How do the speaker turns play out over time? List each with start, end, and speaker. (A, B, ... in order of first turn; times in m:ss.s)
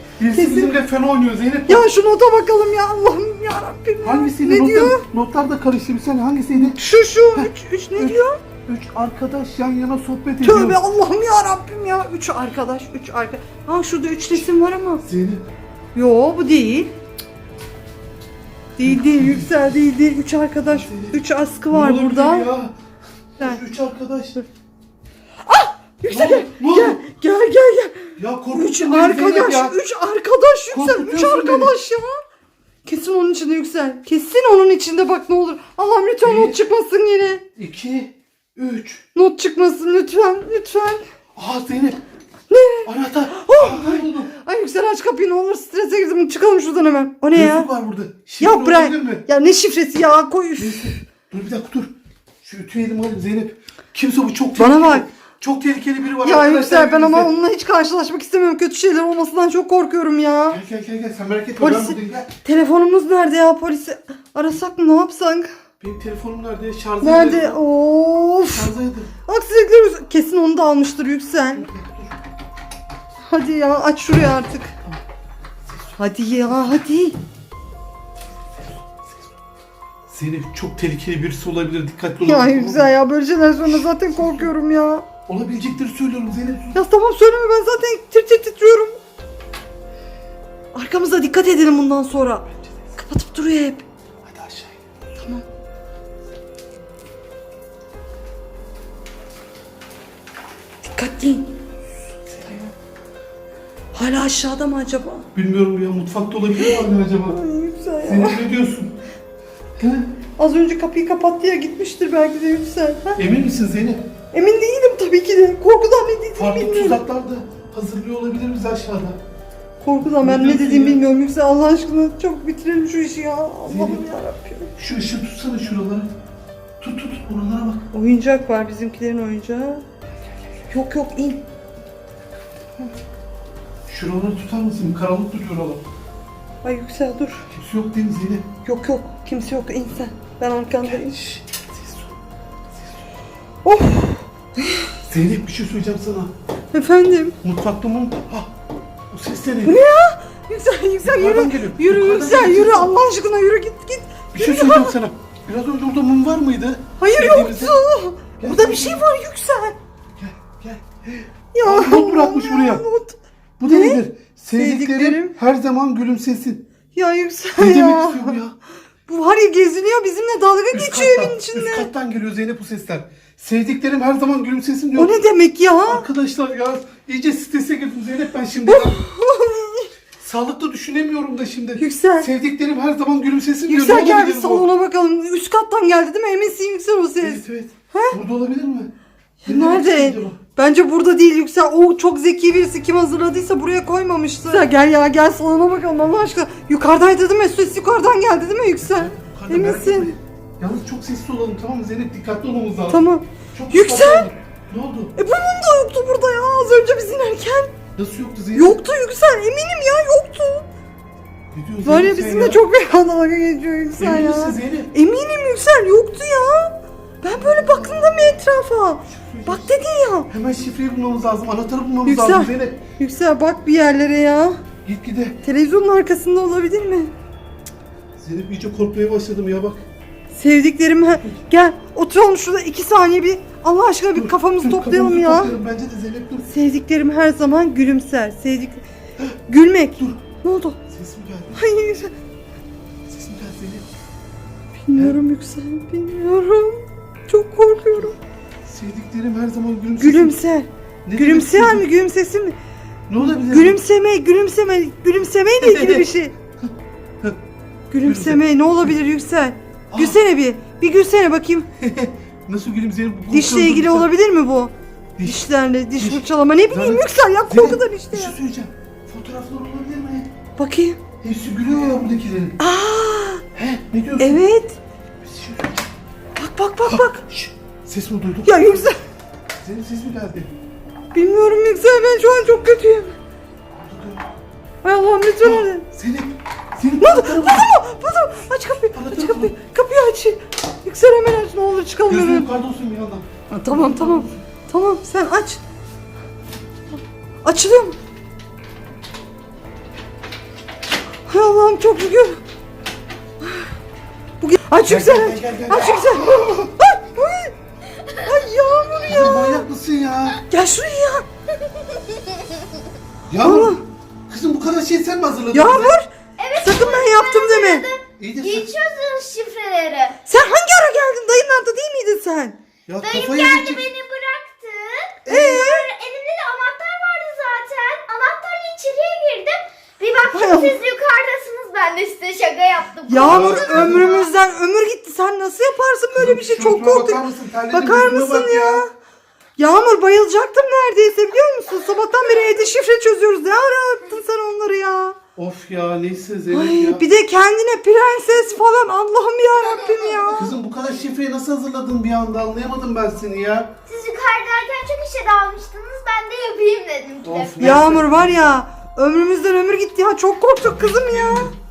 0:00.2-0:01.8 A
0:00.3-0:00.8 B
0:01.7-0:05.0 B
0:04.0-0:06.8 A
0:06.7-0:08.4 B
0:07.3-0:10.8 A
0:10.4-0:15.0 B
0:15.0-0:15.4 A
0:15.9-0:16.9 B
0:18.8-0:22.5 B
0:18.8-0:19.5 A
0:20.6-0:22.7 A
0:23.4-0:24.4 A
0:25.4-0:32.2 B
0:26.1-0:27.0 A
0:28.2-0:29.8 A
0:30.7-0:31.8 A
0:32.8-0:37.4 B
0:36.2-0:36.6 A
0:37.5-0:39.0 A
0:39.1-0:41.0 B
0:41.4-0:42.0 A
0:42.5-0:47.7 B
0:42.8-0:44.3 A
0:47.3-0:49.2 A
0:48.4-0:51.0 B
0:50.6-0:57.3 A
0:54.6-0:55.1 B
0:56.1-1:00.6 B
1:00.5-1:02.4 A
1:01.6-1:05.5 B
1:05.8-1:07.6 A
1:07.0-1:08.7 B
1:08.4-1:09.1 A
1:09.2-1:11.7 B
1:11.5-1:12.2 A
1:13.3-1:14.8 B
1:15.7-1:16.8 A
1:16.0-1:17.2 B
1:20.1-1:22.9 A
1:22.2-1:25.1 B
1:23.6-1:24.5 A
1:25.3-1:26.8 A
1:26.7-1:29.0 B
1:30.7-1:33.8 B
1:32.5-1:32.9 A
1:34.2-1:34.9 A
1:35.2-1:35.4 B
1:40.8-1:41.5 B
1:42.4-1:42.7 B
1:43.9-1:45.2 B
1:45.3-1:47.4 A
1:46.5-1:48.5 B
1:48.0-1:48.9 A
1:49.8-1:50.1 A
1:50.4-1:53.2 B
1:53.2-1:54.1 A
1:54.3-1:57.0 B
1:56.4-1:59.2 A
1:59.8-2:04.7 B
2:00.0-2:01.0 A
2:03.6-2:04.1 A
2:04.8-2:06.1 A
2:06.8-2:07.8 A
2:07.9-2:09.8 B
2:10.7-2:11.4 B
2:13.9-2:15.8 A
2:16.6-2:17.4 B
2:17.5-2:18.5 A
2:18.6-2:21.2 B
2:20.8-2:22.1 A
2:23.6-2:24.9 B
2:25.0-2:26.3 A
2:26.7-2:27.4 B
2:27.4-2:28.5 A
2:29.1-2:29.8 A
2:29.6-2:34.9 B
2:31.0-2:33.0 A
2:34.3-2:37.8 A
2:37.0-2:39.8 B
2:38.4-2:39.0 A
2:40.2-2:42.8 A
2:41.5-2:45.3 B
2:43.6-2:46.6 A
2:46.9-2:48.4 B
2:47.6-2:48.6 A
2:49.1-2:51.9 B
2:50.7-2:55.2 A
2:55.0-2:56.1 B
2:55.8-2:59.0 A
2:58.6-2:59.9 B
3:00.2-3:04.7 A
3:01.8-3:02.3 B
3:03.7-3:08.2 B
3:07.2-3:08.9 A
3:09.4-3:20.2 B
3:09.4-3:10.4 A
3:18.8-3:25.1 A
3:22.9-3:24.3 B
3:25.2-3:27.8 B
3:27.9-3:28.8 A
3:28.5-3:30.7 B
3:31.5-3:32.6 A
3:31.8-3:40.3 B
3:33.9-3:34.9 A
3:37.2-3:38.4 A
3:39.1-3:39.8 A
3:40.3-3:42.8 A
3:42.0-3:44.6 B
3:44.8-3:45.4 A
3:45.4-3:47.1 B
3:48.2-3:49.8 A
3:50.3-3:55.6 B
3:54.1-3:56.5 A
3:56.5-3:58.8 B
3:59.5-4:00.8 B
4:00.0-4:00.2 A
4:00.9-4:01.6 A
4:01.5-4:02.1 B
4:03.1-4:03.9 A
4:04.8-4:08.2 B
4:08.6-4:10.4 A
4:10.0-4:12.6 B
4:11.0-4:11.9 A
4:13.1-4:13.8 A
4:13.2-4:16.3 B
4:15.6-4:16.7 A
4:17.9-4:21.7 B
4:18.0-4:18.9 A
4:19.9-4:20.2 A
4:21.8-4:24.1 A
4:23.3-4:28.4 B
4:25.2-4:25.4 A
4:26.0-4:30.3 A
4:30.6-4:31.0 B
4:31.2-4:32.6 A
4:32.6-4:33.4 B
4:33.5-4:34.4 A
4:34.2-4:34.8 B
4:35.2-4:35.9 A
4:36.4-4:37.3 B
4:36.8-4:38.9 A
4:38.4-4:39.0 B
4:39.6-4:40.5 A
4:41.1-4:43.2 B
4:43.7-4:44.3 A
4:44.8-4:45.8 B
4:45.4-4:47.7 A
4:47.0-4:52.5 B
4:48.9-4:49.5 A
4:52.0-4:54.4 A
4:53.5-4:55.6 B
4:57.4-4:58.0 B
5:01.3-5:02.4 B
5:04.4-5:07.5 B
5:04.8-5:06.7 A
5:08.2-5:09.7 B
5:09.0-5:10.4 A
5:10.4-5:11.2 B
5:13.3-5:13.8 A
5:13.4-5:13.8 B
5:14.3-5:16.0 A
5:15.5-5:17.8 B
5:16.4-5:20.2 C
5:18.2-5:18.7 A
5:20.2-5:22.6 B
5:22.9-5:23.9 A
5:23.0-5:34.3 C
5:25.2-5:25.9 B
5:30.3-5:30.8 B
5:33.1-5:38.9 B
5:33.2-5:34.1 A
5:36.1-5:38.8 A
5:39.6-5:45.2 B
5:45.4-5:47.0 A
5:46.5-5:50.6 B
5:50.3-5:53.7 A
5:53.8-5:57.7 C
5:57.2-5:58.6 A
5:57.6-6:01.5 B
6:00.6-6:01.6 A